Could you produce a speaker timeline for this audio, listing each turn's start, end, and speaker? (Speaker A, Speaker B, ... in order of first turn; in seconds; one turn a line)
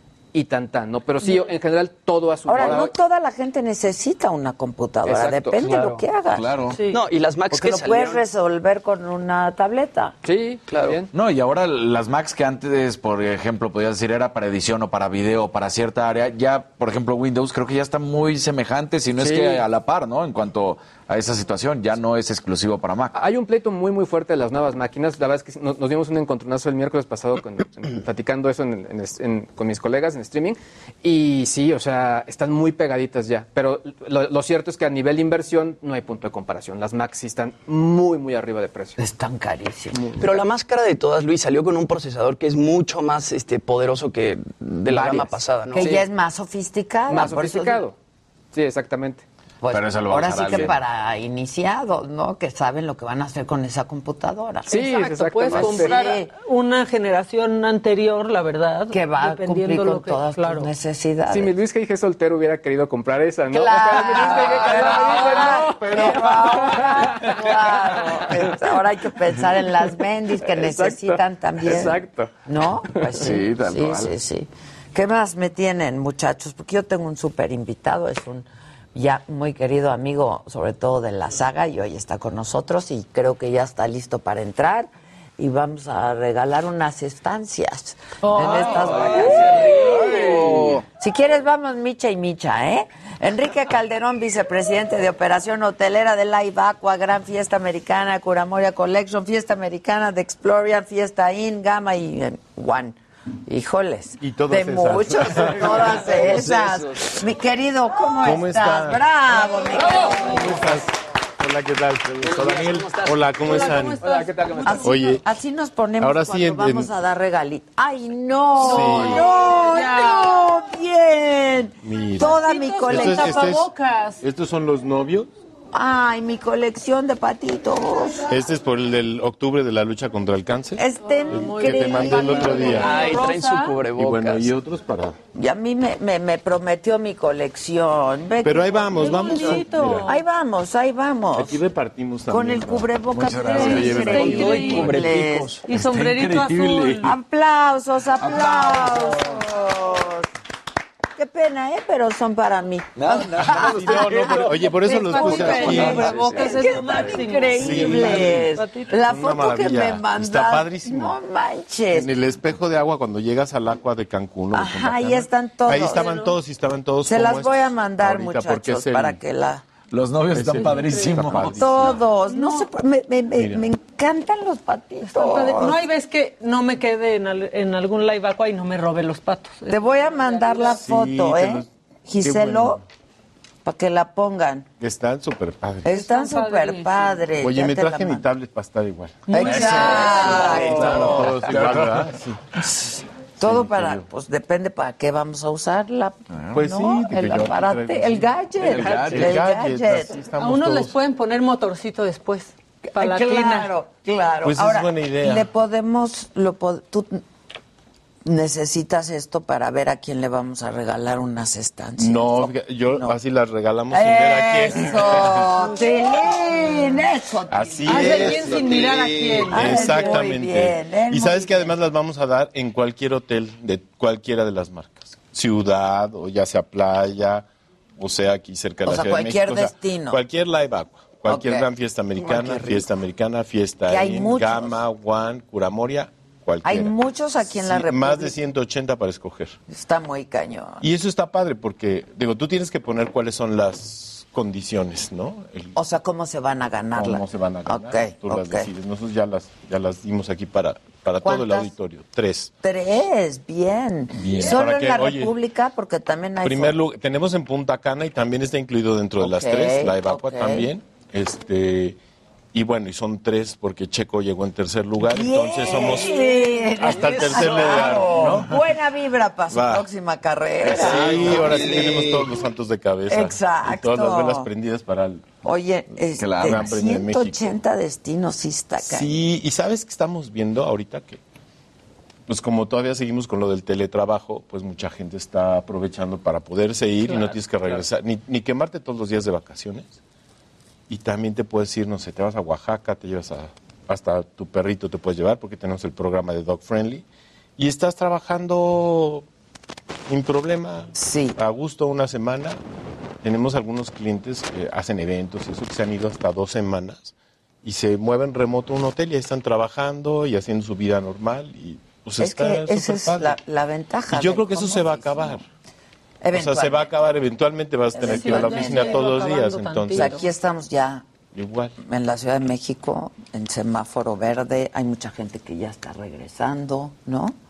Speaker A: 0.3-2.9
Speaker B: 2.5-6.5
Speaker A: 5.1-6.0
Speaker C: 5.7-6.8
Speaker D: 6.7-7.0
Speaker E: 6.9-8.2
Speaker B: 7.5-10.2
Speaker A: 10.2-11.1
Speaker E: 10.7-11.0
Speaker C: 11.1-23.1
Speaker A: 19.2-19.6
Speaker A: 23.1-39.0
Speaker B: 39.0-40.2
Speaker A: 40.0-40.4
Speaker E: 40.2-45.9
Speaker A: 44.9-46.1
Speaker B: 45.7-47.9
Speaker A: 47.1-48.0
Speaker A: 48.5-49.2
Speaker B: 49.6-54.8
Speaker C: 49.7-50.8
Speaker A: 54.7-56.0
Speaker D: 54.7-60.7
Speaker B: 55.5-56.3
Speaker B: 58.9-61.5
Speaker A: 61.3-68.6
Speaker B: 63.5-110.7
Speaker A: 70.4-72.3
Speaker C: 73.2-74.1
Speaker D: 88.2-89.5
Speaker C: 88.6-90.8
Speaker F: 104.2-106.6
Speaker F: 108.2-109.1
Speaker D: 109.7-110.7
Speaker A: 109.8-110.3
Speaker F: 110.2-114.0
Speaker A: 112.2-114.9
Speaker D: 113.4-115.2
Speaker B: 114.7-123.5
Speaker F: 114.8-115.2
Speaker F: 116.0-116.9
Speaker D: 118.6-120.4
Speaker F: 118.6-119.3
Speaker F: 121.8-123.7
Speaker D: 122.2-124.2
Speaker F: 124.2-125.3
Speaker B: 125.7-128.3
Speaker F: 128.3-133.0
Speaker B: 130.8-132.9
Speaker D: 131.0-133.8
Speaker E: 132.7-134.5
Speaker F: 133.9-135.2
Speaker B: 135.3-141.6
Speaker F: 138.4-140.1
Speaker D: 138.9-140.2
Speaker F: 141.3-145.1
Speaker B: 142.3-145.5
Speaker C: 143.1-144.2
Speaker D: 143.5-144.9
Speaker E: 144.1-145.7
Speaker D: 145.7-147.1
Speaker C: 145.7-147.1
Speaker B: 147.0-150.3
Speaker C: 148.2-149.4
Speaker B: 151.2-162.1
Speaker C: 153.0-154.6
Speaker F: 153.6-156.1
Speaker D: 154.4-159.0
Speaker C: 155.6-157.2
Speaker F: 157.6-161.2
Speaker F: 161.9-169.2
Speaker B: 164.5-166.3
Speaker B: 167.1-169.6
Speaker C: 169.9-172.0
Speaker F: 170.3-172.0
Speaker D: 170.7-171.2
Speaker B: 171.6-175.8
Speaker D: 172.3-172.7
Speaker F: 173.3-173.7
Speaker D: 175.0-180.8
Speaker B: 179.7-182.8
Speaker F: 180.7-181.7
Speaker F: 182.2-182.8
Speaker B: 183.6-184.7
Speaker F: 184.8-185.9
Speaker B: 185.8-188.2
Speaker D: 185.9-187.3
Speaker F: 187.4-192.5
Speaker D: 189.3-191.1
Speaker B: 189.3-191.5
Speaker C: 189.4-192.1
Speaker B: 192.7-200.1
Speaker F: 193.4-194.1
Speaker F: 196.5-201.0
Speaker C: 198.6-199.4
Speaker D: 200.4-203.7
Speaker B: 202.9-207.2
Speaker F: 204.4-205.5
Speaker B: 208.2-213.1
Speaker F: 212.0-215.6
Speaker B: 213.9-218.6
Speaker F: 217.5-218.7
Speaker D: 217.9-220.2
Speaker F: 219.4-227.5
Speaker B: 219.5-221.7
Speaker F: 228.0-239.6
Speaker B: 228.9-230.2
Speaker B: 231.3-231.7
Speaker B: 232.3-232.7
Speaker B: 233.9-234.8
Speaker B: 236.6-238.3
Speaker B: 239.7-240.8
Speaker F: 240.8-245.8
Speaker B: 245.8-248.7
Speaker F: 246.9-252.5
Speaker B: 251.2-251.7
Speaker B: 252.6-256.8
Speaker F: 254.1-255.4
Speaker F: 256.4-262.0
Speaker B: 259.2-260.7
Speaker F: 262.5-266.2
Speaker B: 265.0-272.0
Speaker D: 265.8-268.3
Speaker F: 266.8-268.6
Speaker F: 269.5-269.9
Speaker F: 270.6-275.4
Speaker C: 270.6-271.9
Speaker B: 273.1-274.5
Speaker B: 275.4-279.1
Speaker C: 276.2-276.7
Speaker F: 276.4-277.6
Speaker F: 278.8-281.2
Speaker F: 282.3-290.0
Speaker A: 287.1-287.8
Speaker F: 290.9-297.1
Speaker F: 297.6-299.2
Speaker F: 300.1-302.6
Speaker B: 301.0-301.4
Speaker F: 303.2-313.4
Speaker B: 312.2-315.4
Speaker F: 314.1-315.4
Speaker B: 316.2-316.9
Speaker F: 316.3-320.2
Speaker B: 317.9-319.1
Speaker D: 318.0-320.2
Speaker B: 319.9-321.1
Speaker F: 321.3-321.8
Speaker B: 321.8-327.4